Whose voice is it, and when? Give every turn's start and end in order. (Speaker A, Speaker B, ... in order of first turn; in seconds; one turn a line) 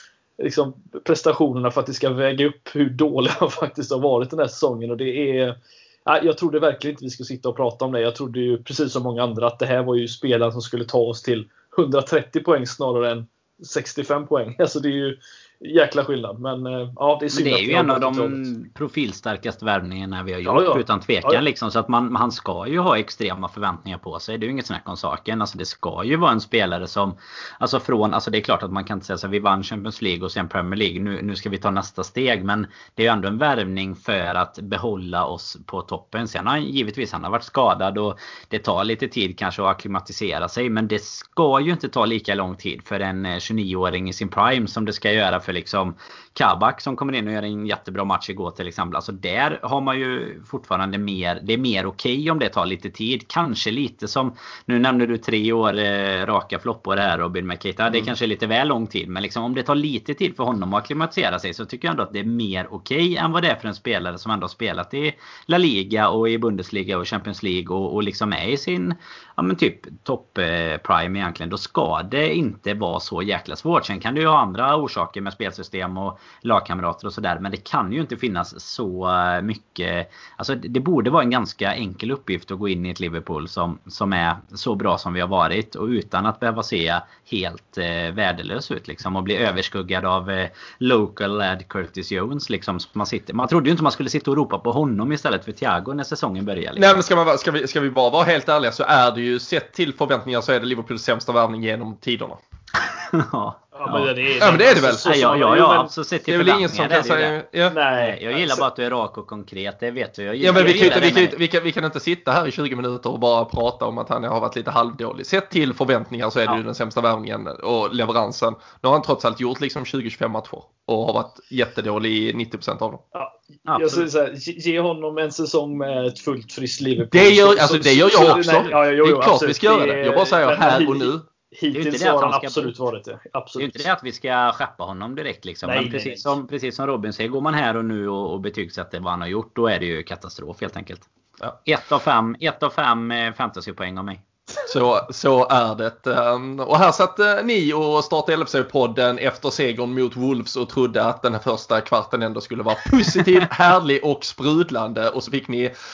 Speaker A: 0.4-18.4
Speaker B: 17.3-96.9
Speaker A: 20.4-21.4
Speaker C: 96.8-102.4
Speaker B: 103.1-107.3
Speaker A: 103.7-105.9
Speaker C: 104.4-105.0
Speaker C: 106.3-107.8
Speaker A: 107.7-108.6
Speaker B: 107.9-111.3
Speaker C: 110.4-123.0
Speaker A: 110.5-111.1
Speaker A: 123.1-133.9
Speaker B: 123.7-124.0
Speaker C: 127.1-131.2
Speaker B: 131.7-132.7
Speaker B: 133.6-141.1
Speaker A: 135.7-136.3
Speaker B: 141.6-144.2
Speaker C: 144.6-155.7